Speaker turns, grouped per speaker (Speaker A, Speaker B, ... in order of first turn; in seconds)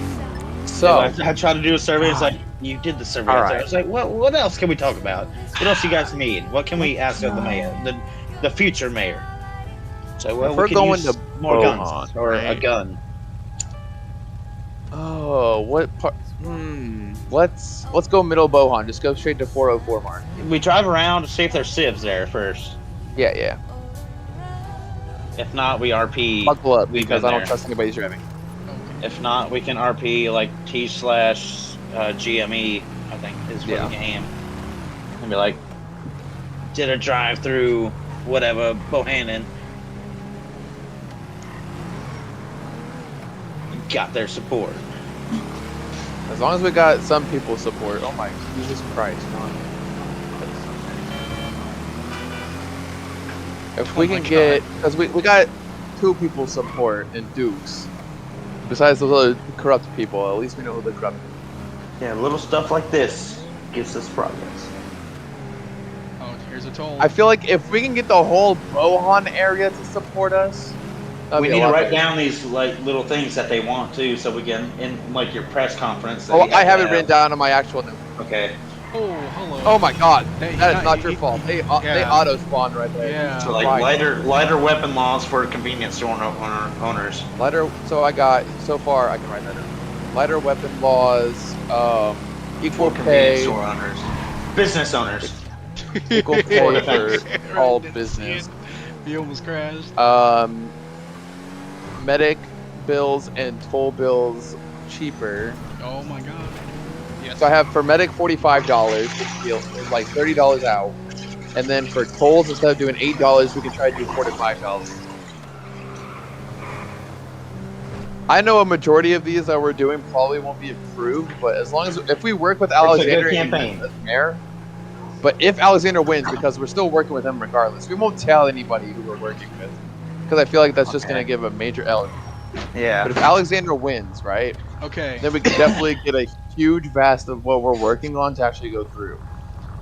Speaker A: 0.7-1.1, 2.0-2.4, 3.3-3.6, 6.8-7.8, 10.4-12.6, 14.9-20.2, 23.1-23.6, 26.4-28.2, 33.6-33.9, 46.3-49.7, 50.4-51.0, 53.8-57.9, 58.6-61.3, 67.0-70.8, 71.3-72.0, 76.3-78.0, 79.6-84.0, 87.4-93.6, 96.1-98.5, 100.0-100.8, 102.0-105.6, 107.4-111.0, 111.5-115.0, 118.3-124.4, 125.2-129.8, 130.3-132.2, 133.0-134.6, 135.2-139.2
Speaker B: 0.8-9.3, 10.2-13.0, 20.4-22.8, 25.4-27.5, 29.0-34.3, 35.2-35.6, 36.7-39.5, 43.7-44.8, 62.0-64.7, 71.3-77.1, 78.2-78.6, 83.4-87.3, 92.8-95.4, 96.5-97.2, 122.8-123.8, 130.8-131.3, 132.7-133.1, 135.4-135.8
Speaker C: 28.7-29.0, 53.9-54.6, 66.2-67.1, 78.9-79.8, 80.4-82.3, 83.0-83.6, 95.8-100.0, 105.8-107.5, 134.8-135.3